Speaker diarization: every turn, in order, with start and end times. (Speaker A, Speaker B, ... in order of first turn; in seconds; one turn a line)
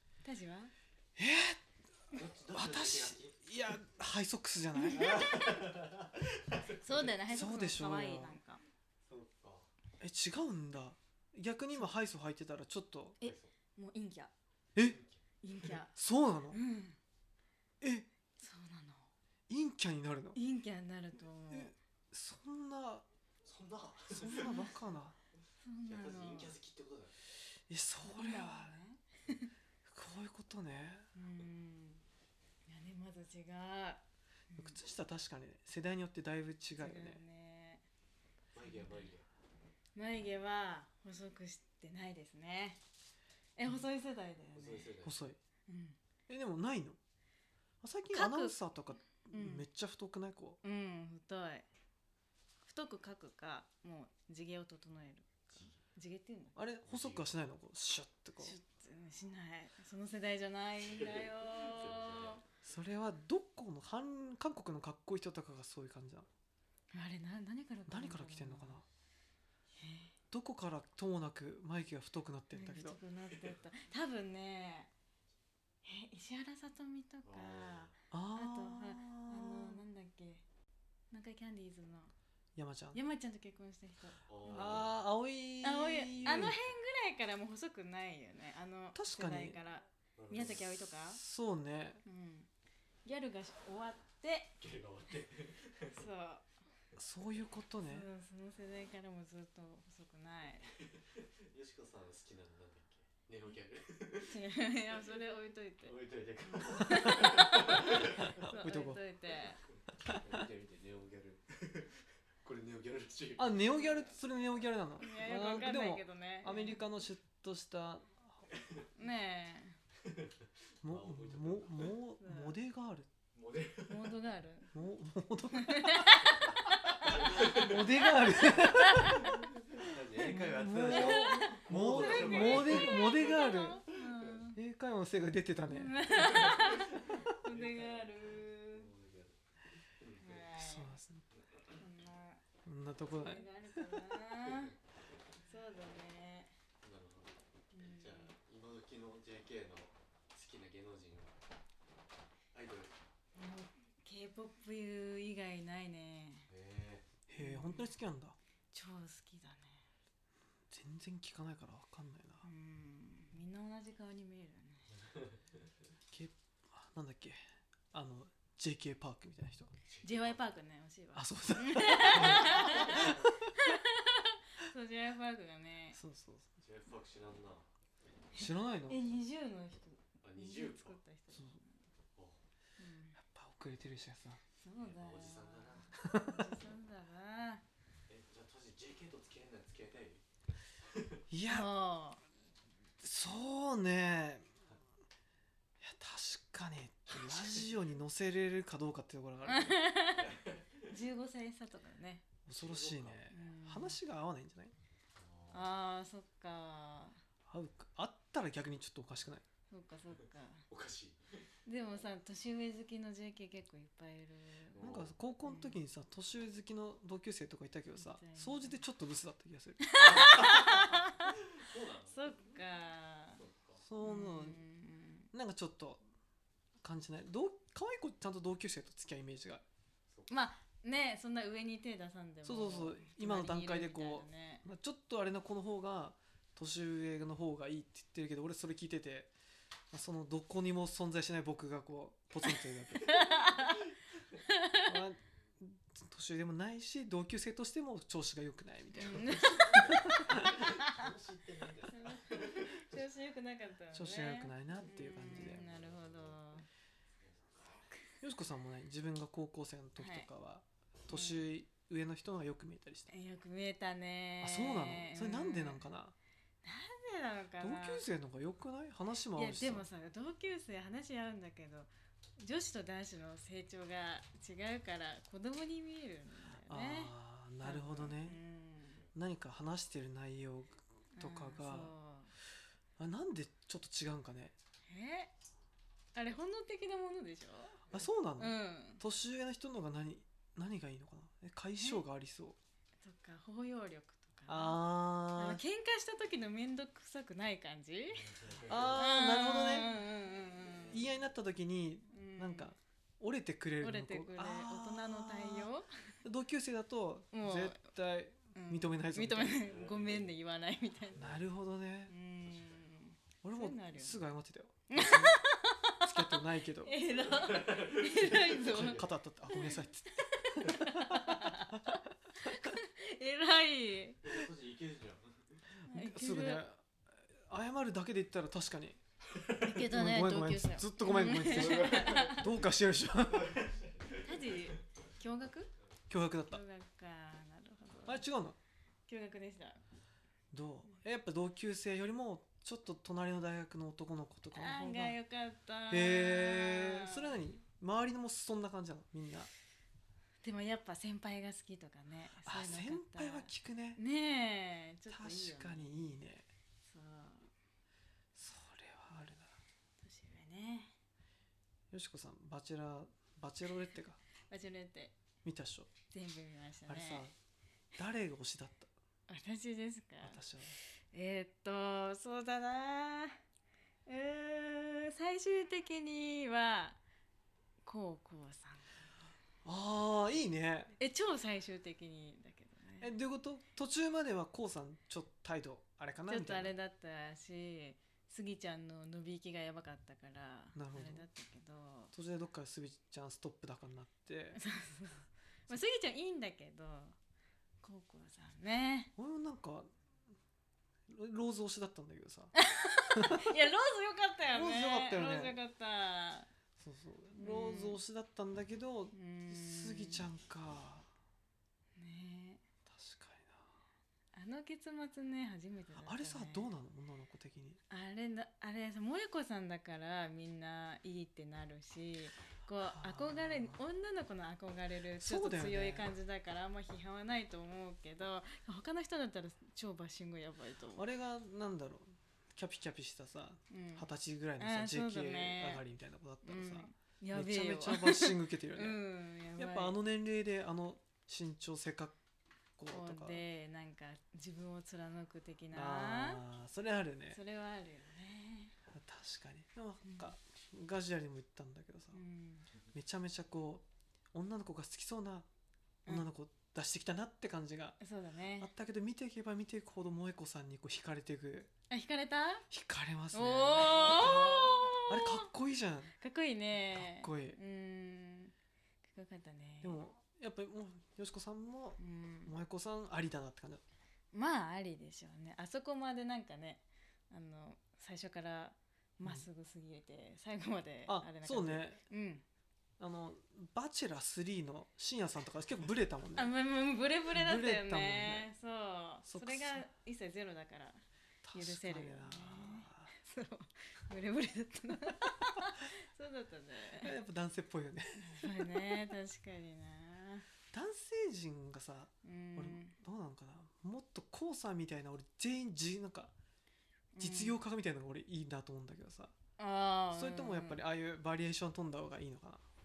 Speaker A: 0.2-0.7
Speaker B: 1.2-1.6
Speaker C: 2.1-3.4
Speaker B: 2.4-5.4
Speaker C: 4.9-7.2
Speaker A: 6.8-8.6
Speaker B: 7.2-8.4
Speaker C: 9.1-9.7
Speaker B: 10.0-13.2
Speaker A: 13.2-14.3
Speaker C: 14.8-15.1
Speaker A: 15.4-16.0
Speaker B: 15.9-16.6
Speaker A: 16.5-17.0
Speaker B: 17.8-18.1
Speaker A: 18.4-19.1
Speaker B: 19.5-20.4
Speaker A: 20.3-21.7
Speaker B: 21.5-23.1
Speaker C: 23.4-24.6
Speaker B: 24.1-25.2
Speaker A: 24.3-24.7
Speaker A: 25.6-26.6
Speaker C: 25.9-27.1
Speaker B: 27.7-28.8
Speaker A: 28.0-29.5
Speaker B: 29.9-31.1
Speaker A: 31.1-32.0
Speaker A: 32.7-34.8
Speaker B: 34.6-37.2
Speaker A: 36.7-37.8
Speaker C: 38.5-39.3
Speaker A: 38.7-39.1
Speaker A: 40.0-42.8
Speaker A: 43.6-45.0
Speaker C: 44.5-45.2
Speaker B: 45.0-45.4
Speaker A: 45.7-46.0
Speaker B: 46.3-47.0
Speaker B: 47.8-50.6
Speaker A: 48.1-48.6
Speaker A: 49.1-49.7
Speaker A: 50.6-51.6
Speaker A: 52.6-56.6
Speaker B: 56.5-58.6
Speaker C: 56.9-57.5
Speaker A: 58.4-62.4
Speaker C: 60.9-62.4
Speaker B: 62.6-66.3
Speaker A: 66.9-68.8
Speaker B: 67.9-68.8
Speaker A: 69.8-70.1
Speaker B: 70.3-73.0
Speaker A: 72.5-74.9
Speaker A: 75.8-80.4
Speaker C: 77.2-77.9
Speaker B: 78.1-79.8
Speaker A: 81.1-82.1
Speaker B: 82.6-83.0
Speaker A: 82.9-84.8
Speaker C: 84.3-84.9
Speaker B: 84.5-86.6
Speaker A: 85.6-91.2
Speaker C: 86.2-86.7
Speaker B: 89.0-89.6
Speaker C: 90.2-90.7
Speaker B: 91.0-92.0
Speaker A: 92.0-92.5
Speaker A: 93.0-94.6
Speaker C: 94.6-95.8
Speaker A: 95.8-96.5
Speaker B: 97.0-98.1
Speaker A: 97.8-100.7
Speaker C: 101.3-104.4
Speaker A: 104.2-109.6
Speaker C: 105.8-108.4
Speaker B: 108.2-109.0
Speaker C: 110.2-111.9
Speaker C: 112.4-113.7
Speaker B: 113.4-118.3
Speaker A: 115.0-116.8
Speaker A: 119.0-119.8
Speaker B: 120.8-123.1
Speaker C: 120.9-121.9
Speaker A: 122.2-122.6
Speaker C: 123.3-124.2
Speaker A: 123.9-124.7
Speaker B: 124.7-126.0
Speaker A: 125.5-127.7
Speaker C: 126.3-129.0
Speaker B: 127.3-129.2
Speaker A: 128.7-129.5
Speaker C: 129.6-133.3
Speaker B: 130.2-133.8
Speaker A: 130.3-134.6
Speaker B: 134.5-136.1
Speaker A: 135.7-138.9
Speaker C: 136.2-139.4
Speaker C: 140.0-140.4
Speaker A: 140.2-140.9
Speaker B: 140.6-141.2
Speaker A: 141.8-142.4
Speaker B: 142.7-143.8
Speaker A: 143.1-144.8
Speaker A: 145.5-146.5
Speaker C: 146.8-151.3
Speaker A: 147.7-148.4
Speaker C: 152.5-152.9
Speaker A: 153.4-156.5
Speaker C: 156.5-157.1
Speaker B: 157.3-158.4
Speaker A: 157.4-157.9
Speaker A: 158.7-159.8
Speaker B: 160.7-162.5
Speaker A: 162.4-164.9
Speaker B: 166.1-167.4
Speaker B: 167.9-169.7
Speaker C: 169.9-170.4
Speaker A: 170.0-176.0
Speaker B: 171.1-173.3
Speaker C: 172.0-173.3
Speaker B: 175.9-176.6
Speaker C: 176.6-177.7
Speaker A: 178.3-181.8
Speaker B: 178.4-179.0
Speaker C: 180.2-181.0
Speaker A: 182.8-183.2
Speaker B: 183.2-184.4
Speaker A: 184.6-187.6
Speaker C: 184.8-185.9
Speaker B: 185.9-186.4
Speaker C: 188.1-190.2
Speaker B: 191.3-191.7
Speaker A: 191.5-192.2
Speaker B: 193.0-194.5
Speaker B: 195.8-199.8
Speaker C: 197.2-197.6
Speaker A: 199.5-202.3
Speaker C: 200.2-200.5
Speaker B: 202.5-204.7
Speaker C: 202.6-203.2
Speaker A: 203.3-204.0
Speaker C: 205.2-205.7
Speaker A: 205.5-207.2
Speaker B: 207.5-209.4
Speaker A: 209.7-210.7
Speaker C: 210.7-211.2
Speaker A: 211.7-214.9
Speaker C: 214.8-215.1
Speaker B: 214.8-220.1
Speaker A: 215.4-215.8
Speaker A: 218.0-218.8
Speaker A: 219.8-223.5
Speaker C: 220.0-222.4
Speaker C: 223.4-223.8
Speaker B: 223.8-224.6
Speaker A: 224.0-225.3
Speaker B: 225.3-226.0
Speaker B: 226.8-229.6
Speaker A: 230.3-234.7
Speaker B: 232.4-239.3
Speaker B: 239.9-243.4
Speaker A: 243.0-244.8
Speaker B: 244.8-250.6
Speaker A: 249.0-251.0
Speaker C: 249.7-252.9
Speaker A: 251.8-256.7
Speaker B: 253.9-255.7
Speaker C: 255.5-256.4
Speaker B: 258.2-263.1
Speaker A: 260.0-260.3
Speaker A: 261.1-261.5
Speaker A: 263.1-265.8
Speaker B: 264.4-266.2
Speaker A: 266.6-268.0
Speaker B: 267.6-269.9
Speaker A: 269.3-279.1
Speaker B: 276.7-278.4
Speaker B: 279.1-281.9
Speaker A: 281.2-282.3
Speaker B: 283.0-284.5
Speaker A: 284.9-285.3
Speaker A: 286.1-289.0
Speaker B: 287.9-292.6
Speaker A: 291.8-292.0
Speaker A: 293.0-301.0
Speaker B: 294.5-295.6
Speaker B: 298.6-299.9
Speaker B: 300.8-305.7
Speaker A: 302.1-302.7
Speaker A: 303.8-305.9
Speaker B: 306.2-309.7
Speaker A: 307.3-307.9
Speaker A: 308.5-311.3
Speaker C: 309.6-310.3
Speaker C: 311.1-311.4
Speaker B: 311.1-312.1
Speaker A: 312.1-314.2
Speaker C: 312.5-312.8
Speaker B: 313.4-315.4
Speaker A: 314.9-316.1
Speaker B: 316.0-317.0
Speaker A: 316.7-324.3
Speaker C: 317.2-319.0
Speaker B: 318.6-321.6
Speaker C: 324.2-325.3
Speaker A: 325.9-326.6
Speaker B: 325.9-329.0
Speaker A: 329.6-332.5
Speaker B: 329.8-333.7
Speaker A: 334.1-335.7
Speaker B: 336.1-336.6
Speaker A: 336.5-338.2
Speaker B: 338.1-338.6
Speaker A: 339.1-339.8
Speaker B: 340.5-345.2
Speaker A: 344.5-347.3
Speaker B: 345.9-349.5
Speaker A: 350.4-356.1
Speaker B: 352.4-354.0
Speaker B: 355.1-356.5
Speaker A: 356.9-357.5
Speaker B: 358.4-359.5
Speaker A: 360.0-360.9
Speaker B: 361.9-364.2
Speaker A: 364.4-365.2
Speaker B: 365.4-365.9
Speaker A: 366.1-367.3
Speaker B: 366.9-367.3
Speaker B: 368.0-368.9
Speaker A: 369.3-373.4
Speaker B: 370.2-370.8
Speaker A: 374.1-377.0
Speaker A: 377.9-379.0
Speaker B: 379.6-380.9
Speaker A: 381.0-383.1
Speaker B: 383.0-386.7
Speaker A: 386.3-392.1
Speaker B: 390.8-391.3
Speaker B: 392.1-394.6
Speaker A: 394.6-397.2
Speaker A: 397.8-399.1
Speaker B: 399.2-399.9
Speaker B: 401.1-402.6
Speaker A: 402.6-406.5
Speaker B: 403.1-403.5
Speaker B: 404.5-405.6
Speaker B: 406.8-411.1
Speaker A: 407.4-408.0
Speaker A: 409.1-410.3
Speaker A: 412.0-412.6
Speaker B: 412.9-413.7
Speaker A: 414.3-416.7
Speaker B: 416.0-417.8
Speaker A: 417.9-431.1
Speaker B: 422.8-423.8
Speaker B: 425.2-426.1
Speaker B: 431.0-439.0
Speaker A: 433.7-435.8
Speaker A: 436.4-440.0
Speaker B: 439.6-442.1
Speaker B: 442.8-443.4
Speaker A: 442.9-446.4
Speaker B: 445.7-447.4
Speaker A: 447.3-448.8
Speaker B: 448.9-452.2
Speaker A: 450.1-450.3
Speaker A: 452.1-452.7
Speaker B: 452.9-455.5
Speaker B: 456.1-458.0
Speaker A: 458.0-458.7
Speaker B: 458.6-461.7
Speaker A: 461.9-462.7
Speaker B: 462.7-466.1
Speaker A: 463.3-465.5
Speaker A: 466.2-468.5
Speaker B: 466.9-467.6
Speaker A: 469.0-470.0
Speaker B: 469.8-473.8
Speaker A: 472.0-472.5
Speaker A: 474.3-482.4
Speaker B: 481.1-482.0
Speaker B: 483.0-486.6
Speaker A: 486.4-491.0
Speaker B: 487.3-488.5
Speaker B: 489.2-489.9
Speaker B: 491.4-493.1
Speaker A: 491.5-497.1
Speaker B: 497.0-498.9
Speaker A: 498.2-500.5
Speaker B: 500.7-506.3
Speaker A: 502.2-503.0
Speaker A: 507.1-507.6
Speaker B: 507.2-509.4
Speaker A: 509.6-510.8
Speaker B: 510.1-512.6